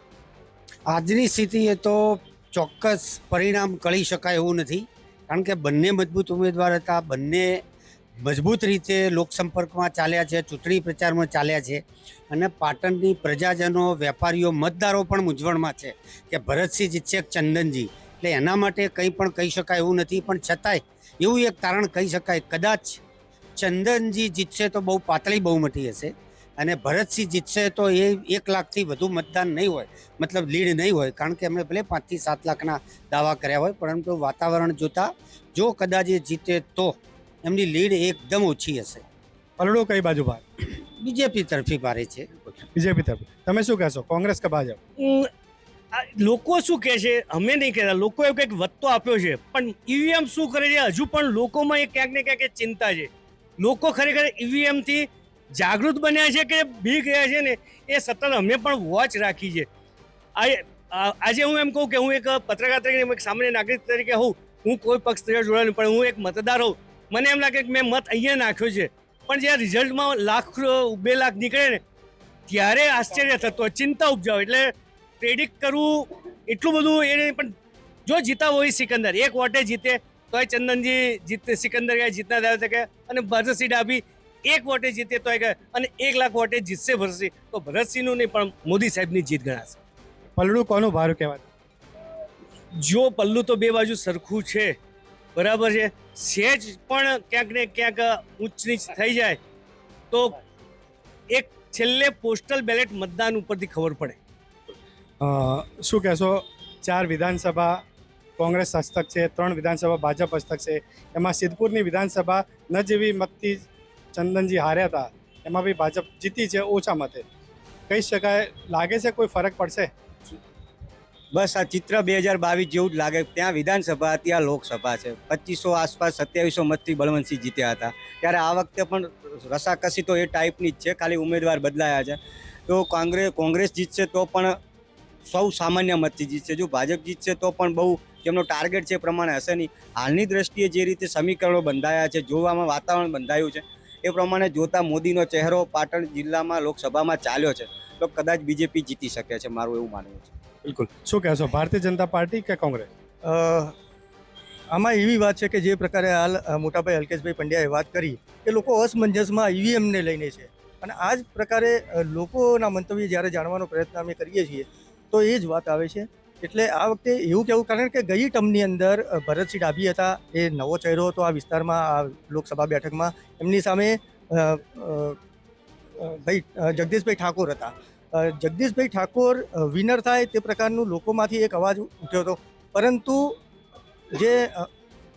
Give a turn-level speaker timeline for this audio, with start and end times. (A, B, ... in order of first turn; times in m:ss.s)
0:00.9-0:07.6 A
0:08.2-0:23.0 A
0:23.6-0:39.0 A
0:39.6-0:40.4 B
0:40.8-0:42.6 A
0:42.7-0:44.8 B
0:45.0-0:45.3 C
0:45.9-0:59.7 C
1:00.4-1:11.8 C
1:12.5-1:17.5 C
1:18.0-1:29.8 C
1:30.4-1:31.4 B
1:32.8-1:34.7 C
1:35.4-1:39.4 C
1:40.1-1:40.4 C
1:41.3-1:44.2 C
1:45.2-1:47.8 B
1:48.4-1:57.2 B
1:57.9-1:59.9 B
2:01.3-2:14.5 D
2:15.2-2:30.3 D
2:30.6-2:32.9 B
2:33.2-2:33.7 E
2:34.7-2:55.2 E
2:56.0-3:03.4 E
3:04.1-3:04.7 E